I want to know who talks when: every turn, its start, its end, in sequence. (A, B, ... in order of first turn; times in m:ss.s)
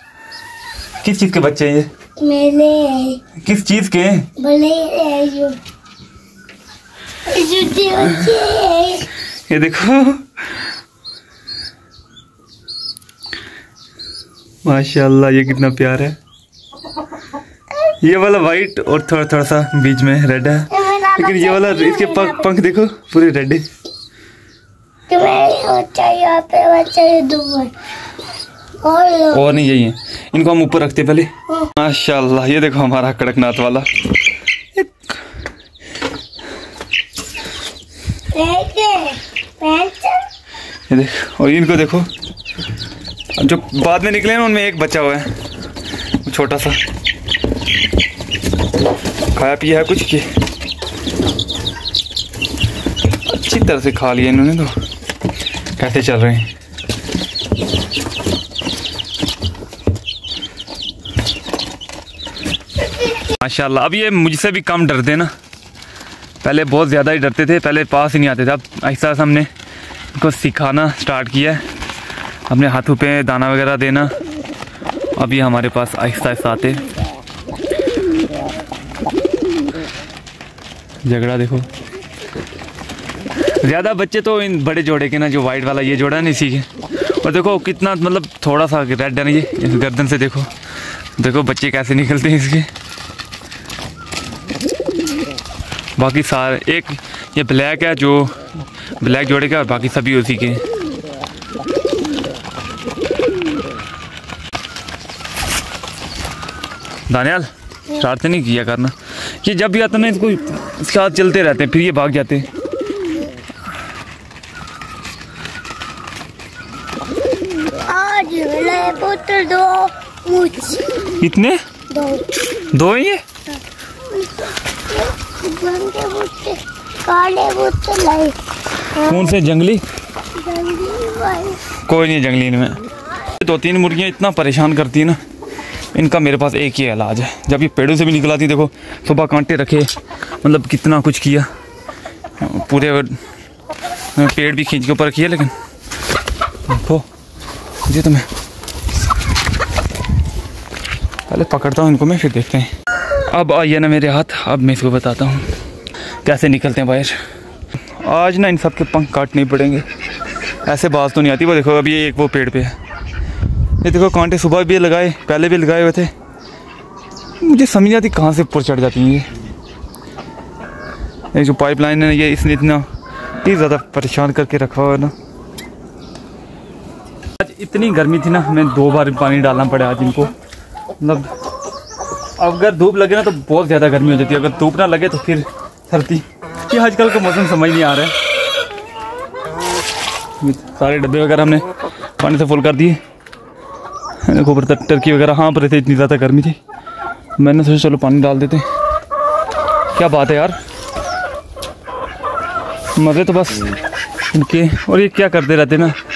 0:01.0-0:01.9 A
0:02.2-0:03.2 B
0:03.4-0:04.3 A
0:04.4-0:05.6 B
0:07.3-0:09.1 B
0:09.5-0:10.4 A
0:14.6-0:16.2 A
0:18.0-0:23.6 A
0:20.7-0:22.5 B
0:25.1-0:27.7 B
0:28.8-0:29.5 B
0:29.3-0:33.9 A
0:38.3-0:40.3 B
0:40.9-0:42.1 A
0:43.4-0:45.3 A
0:46.2-0:46.8 A
0:49.3-0:50.3 A
0:53.2-0:54.7 A
0:55.8-0:56.5 A
1:03.2-1:05.3 A
1:06.4-1:09.5 A
1:10.1-1:11.6 A
1:12.5-1:14.1 A
1:15.2-1:16.8 A
1:21.0-1:21.7 A
1:23.6-1:30.5 A
1:31.2-1:32.7 A
1:36.0-1:38.4 A
1:39.0-1:40.6 A
1:47.1-1:52.5 A
1:57.6-2:01.2 B
2:01.2-2:01.6 A
2:01.9-2:02.3 B
2:02.7-2:03.2 A
2:04.0-2:08.4 B
2:08.9-2:09.8 A
2:10.3-2:11.6 B
2:11.7-2:15.2 A
2:15.9-2:19.9 A
2:20.4-2:21.5 A
2:22.4-2:23.2 A
2:24.2-2:25.5 A
2:26.7-2:27.0 A
2:27.8-2:28.3 A
2:31.3-2:32.7 A
2:33.3-2:35.6 A
2:36.2-2:37.2 A
2:38.0-2:39.8 A
2:40.6-2:42.8 A
2:43.8-2:46.1 A
2:47.4-2:49.3 A
2:51.3-2:52.9 A
2:53.4-2:55.1 A
2:57.4-3:00.3 A
3:01.0-3:01.3 A
3:02.4-3:08.1 A
3:10.4-3:11.7 A
3:12.2-3:13.0 A
3:14.2-3:16.6 A
3:17.4-3:18.7 A
3:19.9-3:20.6 A
3:22.9-3:26.0 A